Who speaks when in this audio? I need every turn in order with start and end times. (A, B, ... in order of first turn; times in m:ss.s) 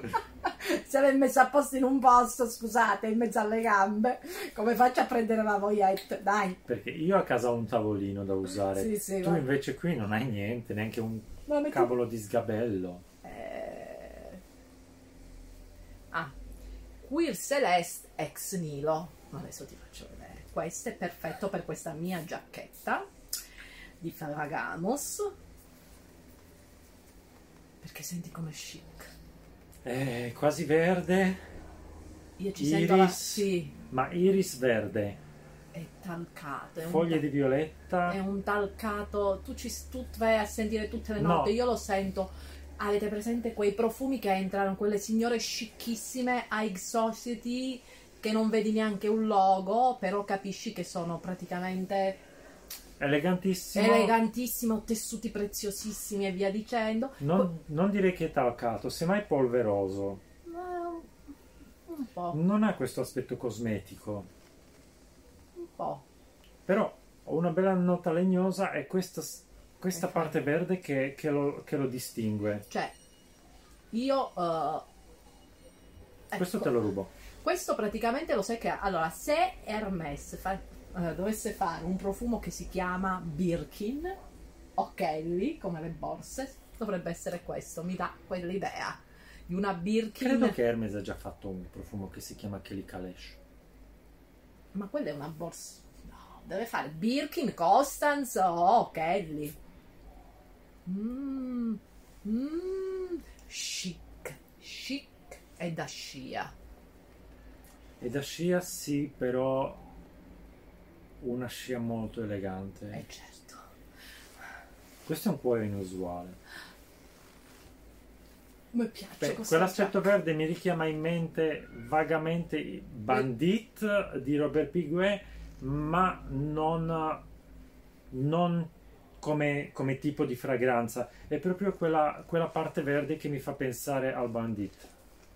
0:00.4-0:06.6 A
0:06.7-0:13.0 B
0:08.6-0:09.4 A
0:11.4-0:11.9 A
0:13.2-0:14.4 A
0:17.0-0:23.1 A
0:24.0-0:25.3 A
0:27.8-0:29.1 A
0:29.8-0:31.4 B
0:32.4-0:33.7 A
0:32.6-0:35.2 B
0:35.7-0:37.2 A
0:36.8-0:38.2 B
0:38.0-0:52.2 A
0:41.2-0:41.5 B
0:53.0-0:54.2 B
0:53.7-0:57.5 A
0:57.2-1:00.2 B
1:00.4-1:01.2 A
1:01.9-1:02.4 A
1:02.3-1:04.3 B
1:05.6-1:06.0 A
1:06.6-1:12.6 B
1:09.9-1:10.3 A
1:12.7-1:12.9 A
1:13.9-1:14.8 A
1:16.3-1:16.7 A
1:16.4-1:17.1 B
1:17.4-1:24.2 A
1:24.8-1:30.6 A
1:30.2-1:33.4 B
1:34.7-1:39.6 A
1:40.8-1:46.5 A
1:48.0-1:49.8 B
1:51.2-1:53.0 B
1:52.9-1:53.6 A
1:55.0-1:56.4 B
1:58.7-2:00.1 A
1:59.2-2:07.2 B
2:08.1-2:14.9 B